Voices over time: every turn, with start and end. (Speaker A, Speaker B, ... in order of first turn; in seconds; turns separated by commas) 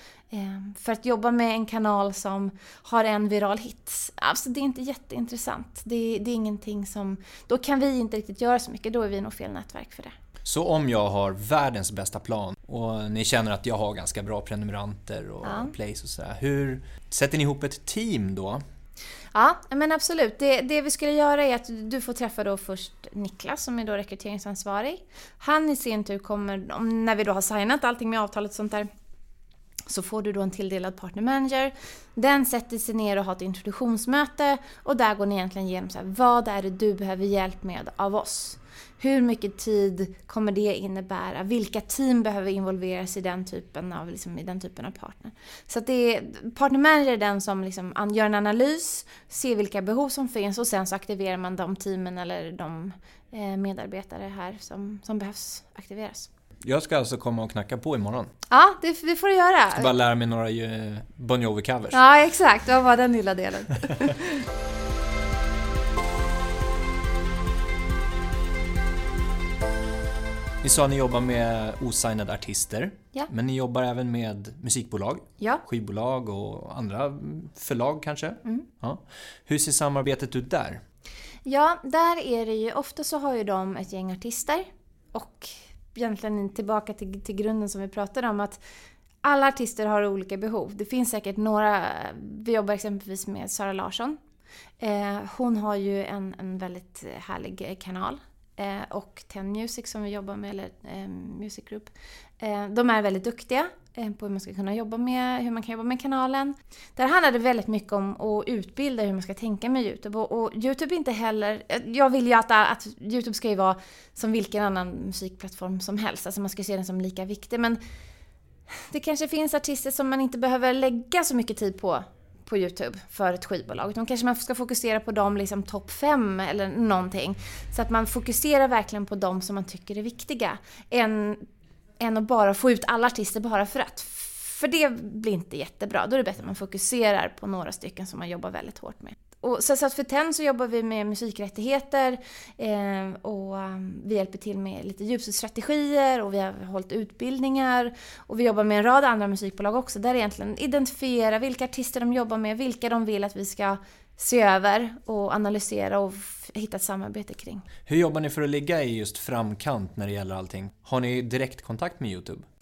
Speaker A: 0.3-10.1, Speaker B: 10.4-18.6, Speaker A: 15.4-15.7, Speaker A: 19.3-28.9, Speaker A: 29.9-56.3, Speaker B: 56.6-58.3, Speaker A: 58.5-59.9, Speaker B: 59.8-62.0, Speaker A: 61.9-64.4, Speaker B: 70.6-80.8, Speaker A: 81.5-88.6, Speaker A: 89.2-94.2, Speaker A: 94.8-117.8, Speaker A: 118.7-131.4, Speaker A: 132.0-157.7, Speaker B: 157.9-162.4